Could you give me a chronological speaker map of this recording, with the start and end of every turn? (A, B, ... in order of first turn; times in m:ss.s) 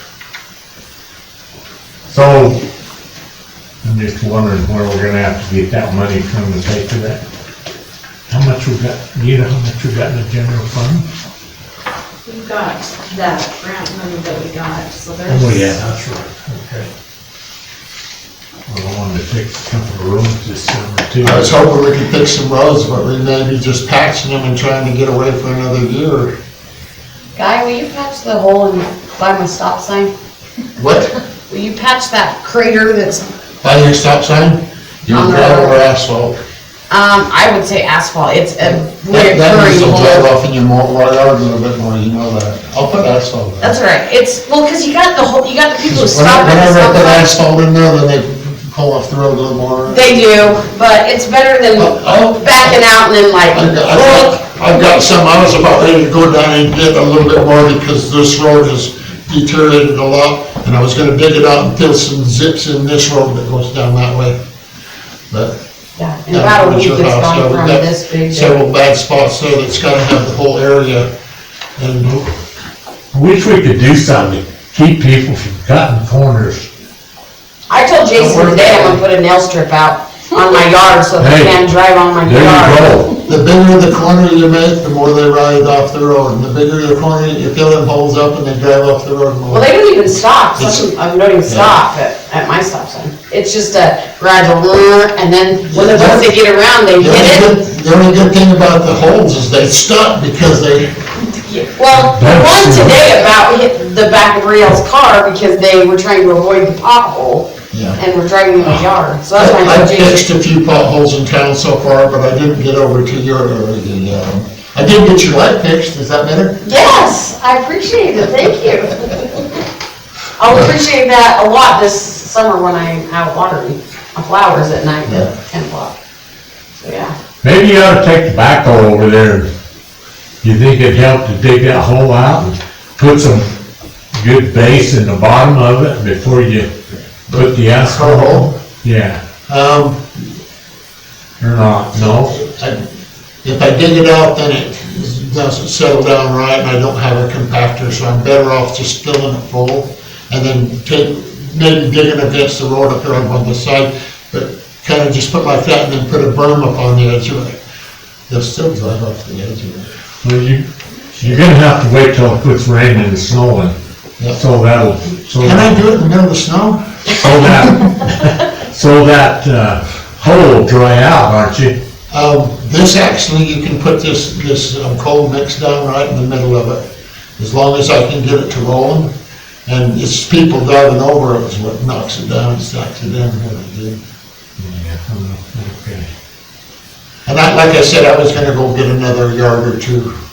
0:02.1-0:02.6 A
0:03.8-0:07.2 A
0:08.3-0:11.0 A
0:12.3-0:15.8 B
0:15.3-0:16.9 A
0:18.7-0:21.6 A
0:21.2-0:26.3 C
0:27.4-0:30.1 D
0:30.8-0:31.1 C
0:31.5-0:33.3 D
0:33.6-0:36.4 C
0:35.1-0:35.8 D
0:36.9-0:40.3 D
0:38.6-0:43.8 C
0:43.6-0:47.3 D
0:45.8-0:50.2 C
0:49.8-0:54.4 D
0:51.8-0:52.8 C
0:53.4-1:04.4 C
1:05.3-1:05.6 C
1:06.0-1:08.6 D
1:06.3-1:11.1 C
1:11.8-1:12.3 C
1:13.1-1:16.7 A
1:17.7-1:23.0 D
1:18.2-1:19.0 C
1:21.2-1:21.6 A
1:22.2-1:23.2 A
1:23.2-1:29.7 C
1:29.5-1:37.6 D
1:30.6-1:30.9 C
1:31.4-1:31.8 C
1:35.7-1:36.3 C
1:37.0-1:40.9 C
1:41.5-1:50.2 D
1:41.9-1:43.2 A
1:47.7-1:48.0 C
1:49.3-1:56.6 C
1:56.6-1:59.4 D
2:00.4-2:06.0 D
2:05.0-2:05.3 C
2:06.8-2:07.1 D
2:07.4-2:09.5 A
2:10.4-2:13.5 A
2:14.1-2:16.7 A
2:17.3-2:19.2 A
2:17.3-2:18.5 C
2:19.5-2:20.0 C
2:21.4-2:22.3 A
2:22.0-2:22.8 C
2:23.4-2:37.6 C
2:38.3-2:39.9 C
2:40.2-2:43.8 A
2:44.3-2:45.8 A
2:45.4-2:47.0 C
2:47.1-2:51.8 A
2:52.1-2:56.8 C
2:57.4-2:59.1 C
2:59.7-3:04.0 C
3:04.6-3:06.1 A
3:07.3-3:10.1 C